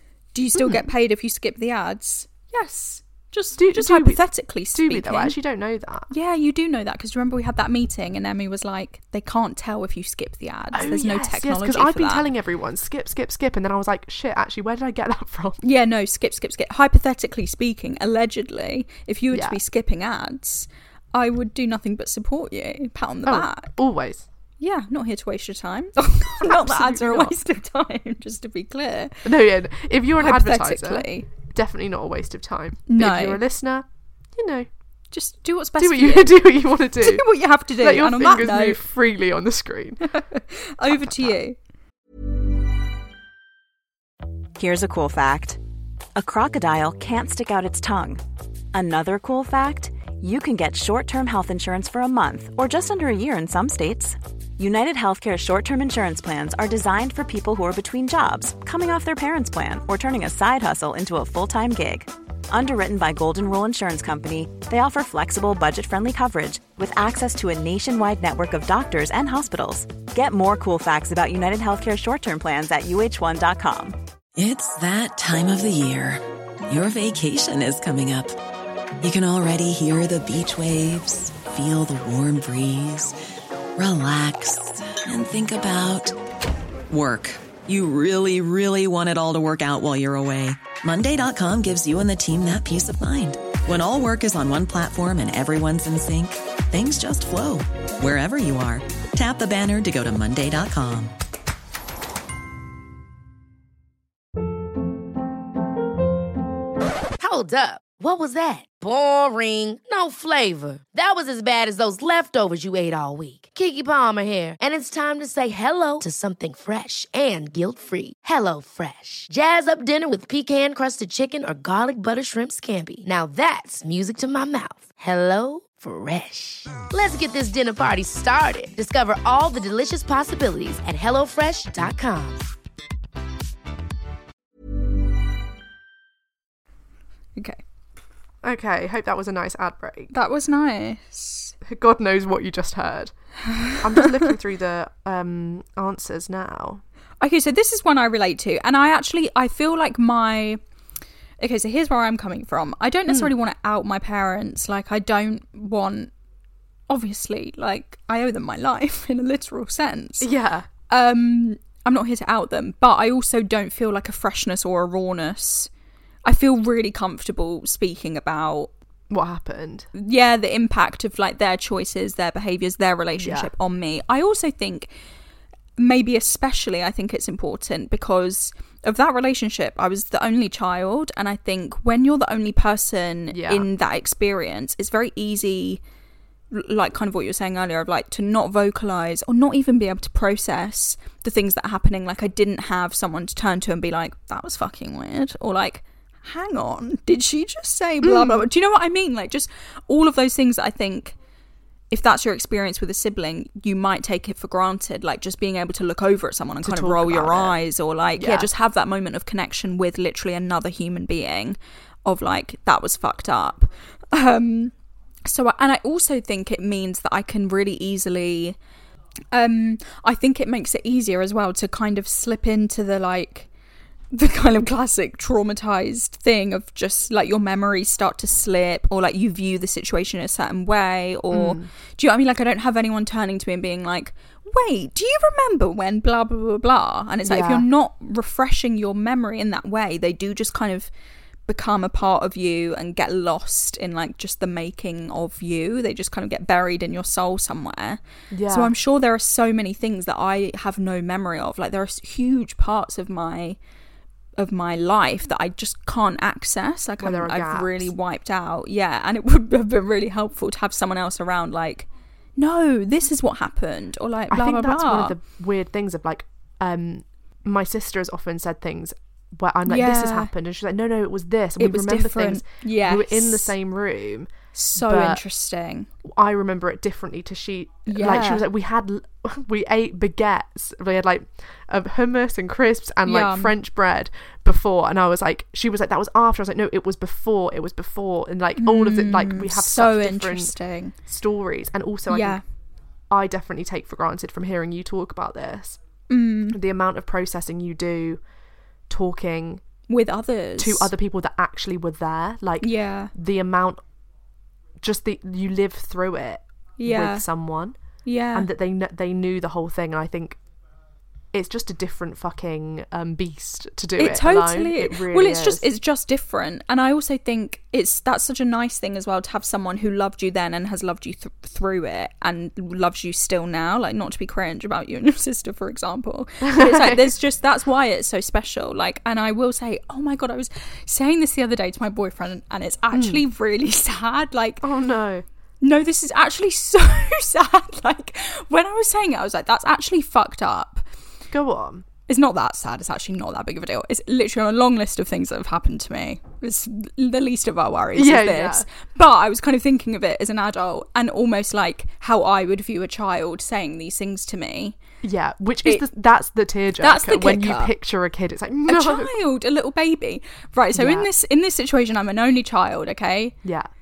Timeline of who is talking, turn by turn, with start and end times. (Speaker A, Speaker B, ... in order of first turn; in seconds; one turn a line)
Speaker A: 0.3-5.4
Speaker B: 0.5-0.9
Speaker B: 3.6-6.1
Speaker A: 6.1-12.2
Speaker B: 10.7-15.6
Speaker A: 15.6-23.7
Speaker B: 19.3-19.6
Speaker B: 23.2-24.3
Speaker A: 24.6-29.3
Speaker B: 26.4-27.4
Speaker B: 29.2-34.7
Speaker A: 30.1-31.3
Speaker A: 32.9-33.4
Speaker A: 35.1-38.8
Speaker B: 35.8-37.2
Speaker B: 37.8-40.2
Speaker A: 40.1-41.5
Speaker B: 40.8-41.4
Speaker C: 44.6-45.6
Speaker C: 46.1-48.2
Speaker C: 48.7-74.0
Speaker D: 74.4-78.4
Speaker D: 79.0-83.2
Speaker D: 83.8-86.2
Speaker D: 86.9-101.1
Speaker E: 107.2-132.4
Speaker A: 137.3-137.6
Speaker B: 138.4-140.1
Speaker A: 140.1-141.5
Speaker B: 141.6-146.8
Speaker A: 147.2-150.6
Speaker A: 151.4-156.1
Speaker B: 153.1-153.3
Speaker A: 156.9-160.3
Speaker B: 160.2-160.7
Speaker A: 160.9-165.7
Speaker A: 166.2-168.7
Speaker B: 169.1-169.9
Speaker A: 169.9-174.9
Speaker B: 173.2-173.5
Speaker A: 175.8-185.8
Speaker B: 183.3-183.7
Speaker A: 186.5-201.2
Speaker B: 198.0-198.4
Speaker A: 201.9-214.7
Speaker B: 206.6-207.6
Speaker B: 208.2-208.5
Speaker A: 215.2-218.6
Speaker A: 219.3-223.5
Speaker A: 224.1-240.9
Speaker B: 231.3-231.7
Speaker B: 237.2-237.6
Speaker A: 241.5-253.6
Speaker B: 248.3-248.7
Speaker A: 254.3-265.1
Speaker B: 257.0-257.9
Speaker B: 264.3-275.2
Speaker A: 269.7-270.3
Speaker A: 271.6-273.5
Speaker A: 274.5-275.9
Speaker B: 276.0-292.4
Speaker A: 277.9-278.4
Speaker A: 283.1-283.5
Speaker A: 288.6-290.9
Speaker A: 292.1-292.4
Speaker B: 293.1-295.8
Speaker A: 296.1-296.6
Speaker B: 296.5-298.2
Speaker B: 298.9-299.6
Speaker A: 299.9-300.9
Speaker B: 300.6-303.8
Speaker A: 302.6-303.1
Speaker B: 304.8-310.4
Speaker A: 306.8-307.3
Speaker A: 308.0-308.5
Speaker B: 311.3-315.6
Speaker A: 314.0-334.6
Speaker B: 326.4-327.1
Speaker B: 332.9-333.2
Speaker B: 334.6-335.2
Speaker A: 335.6-340.9
Speaker B: 341.3-341.9
Speaker A: 342.1-354.8
Speaker B: 347.9-348.7
Speaker B: 355.0-359.1
Speaker A: 356.8-357.7
Speaker A: 358.7-363.4
Speaker B: 360.7-361.1
Speaker B: 363.4-363.7